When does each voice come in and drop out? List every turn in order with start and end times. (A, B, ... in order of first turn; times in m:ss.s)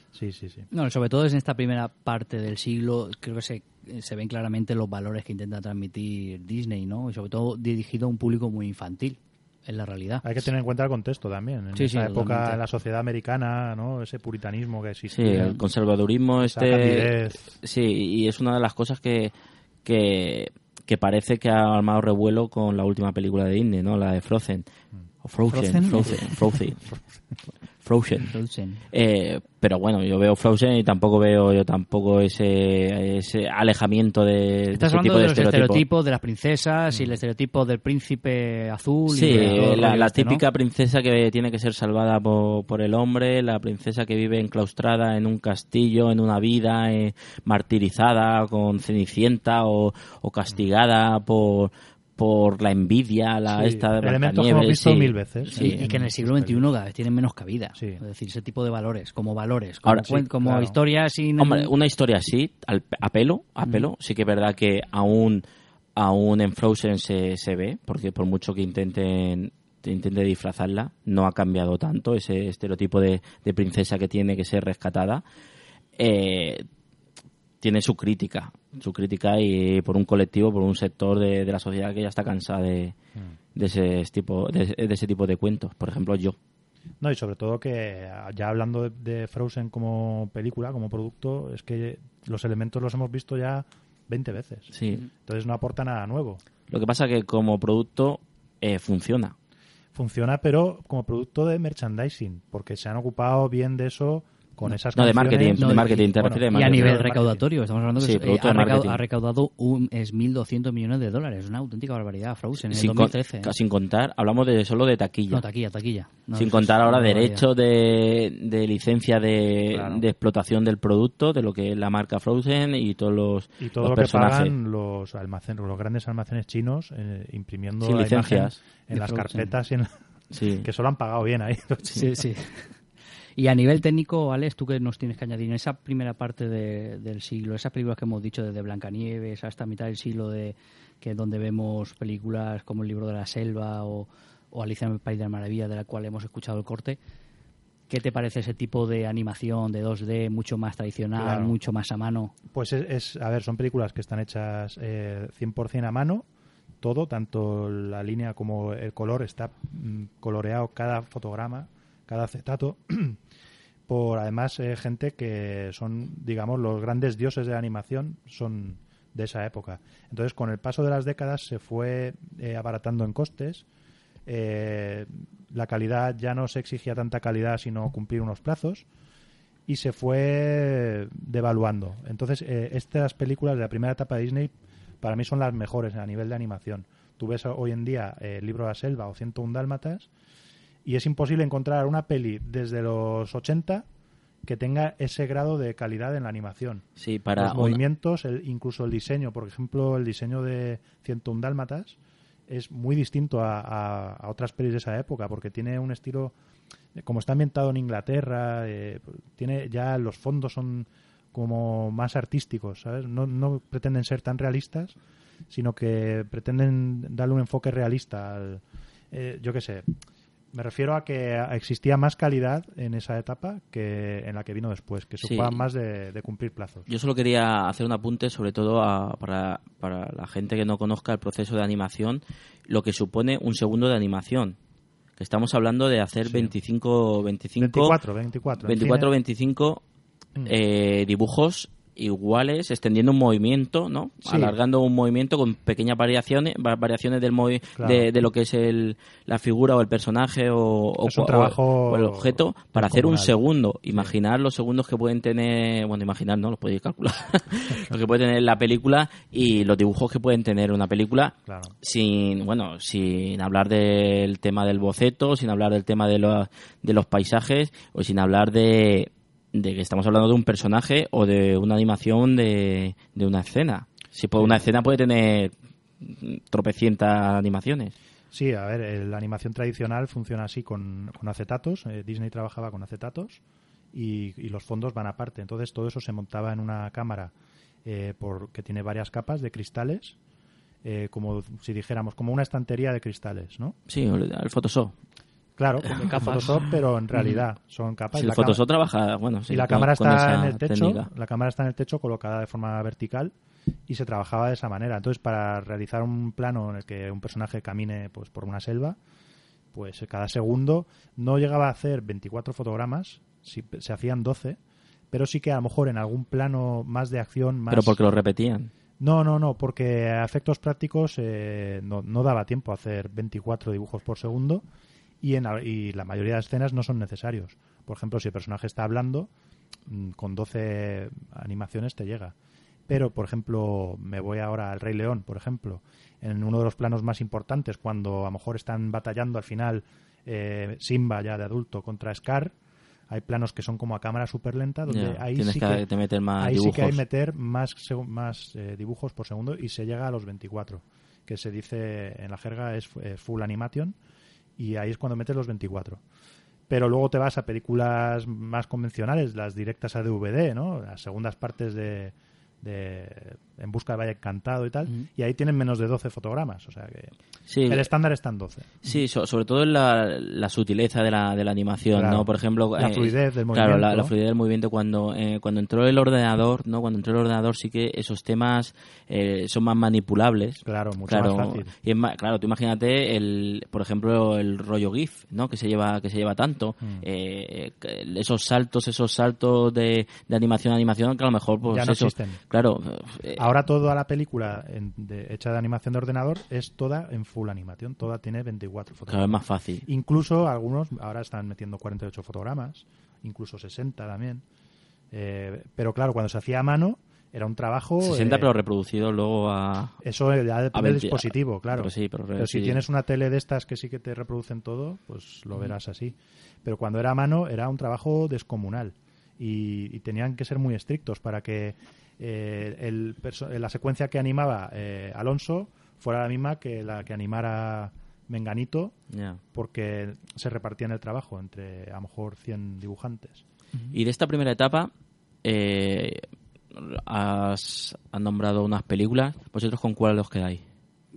0:00.1-0:00.7 A
0:00.7-0:10.3 B
0:10.2-0:15.6 A
0:11.8-0:12.6 B
0:15.1-0:19.3 C
0:16.4-0:17.4 A
0:19.8-0:24.6 C
0:25.2-0:26.8 C
0:25.5-0:26.4 B
0:27.8-0:28.3 C
0:28.2-0:28.8 B
0:28.9-0:35.8 C
0:34.7-0:40.4 B
0:39.1-0:55.8 C
0:53.5-0:56.7 A
0:55.5-1:01.7 B
0:57.8-0:58.0 A
0:59.9-1:00.2 C
1:00.4-1:00.8 A
1:01.4-1:05.4 C
1:06.0-1:15.2 C
1:16.0-1:16.6 C
1:17.6-1:23.0 C
1:23.6-1:26.4 C
1:27.0-1:36.4 A
1:34.7-1:35.0 C
1:36.7-1:39.4 C
1:39.9-1:47.4 A
1:44.9-1:47.0 C
1:45.6-1:53.5 B
1:48.0-1:49.0 C
1:52.7-1:55.4 C
1:55.3-1:57.4 B
1:56.4-2:04.5 C
1:59.7-2:00.0 A
2:03.6-2:09.9 A
2:07.8-2:08.6 C
2:08.9-2:09.5 B
2:10.3-2:10.7 C
2:10.6-2:12.1 A
2:11.9-2:12.7 B
2:13.4-2:27.0 B
2:27.9-2:32.3 B
2:31.2-2:31.6 A
2:32.5-2:36.3 A
2:36.8-2:43.2 A
2:43.9-2:53.6 A
2:54.3-2:58.9 A
2:59.7-3:10.1 A
3:10.8-3:13.9 A
3:14.4-3:16.8 A
3:17.0-3:17.8 C
3:17.4-3:22.0 A
3:22.5-3:26.3 A
3:27.0-3:35.0 A
3:35.5-3:39.9 A
3:40.5-3:46.9 A
3:45.2-3:45.6 C
3:46.9-3:54.6 C
3:55.2-3:58.0 C
3:56.2-3:56.5 A
3:57.6-3:59.1 A
3:58.6-3:59.8 C
4:00.5-4:37.9 C
4:04.2-4:04.6 A
4:07.8-4:08.1 A
4:11.0-4:13.4 A
4:21.5-4:21.7 A
4:34.4-4:34.6 A
4:38.3-4:43.4 A
4:43.9-4:47.3 A
4:47.8-4:50.2 A
4:50.8-4:53.8 A
4:53.9-4:55.0 C
4:55.6-4:58.6 A
4:55.9-4:56.6 B
4:58.2-5:01.1 C
4:59.5-5:03.3 A
5:03.9-5:09.0 A
5:09.7-5:14.6 A
5:15.1-5:18.0 A
5:17.7-5:18.7 C
5:19.0-5:24.6 A
5:25.2-5:29.3 A
5:29.9-5:32.4 A
5:32.9-5:42.5 A
5:43.1-5:45.8 A
5:44.9-5:47.0 C
5:46.4-5:54.0 A
5:54.6-5:56.0 A
5:56.7-6:07.1 A
6:07.5-6:07.9 C
6:07.7-6:08.7 A
6:08.8-6:33.5 C
6:11.9-6:14.1 A
6:20.6-6:21.7 A
6:31.7-6:32.4 A
6:33.4-6:44.4 A
6:39.1-6:39.8 C
6:45.1-6:48.5 A
6:48.0-6:50.0 C
6:50.0-7:09.0 A
6:50.7-6:52.8 C
7:09.1-7:09.4 C
7:09.5-7:13.4 A
7:13.9-7:14.9 C
7:15.4-7:16.2 C
7:16.7-7:20.6 C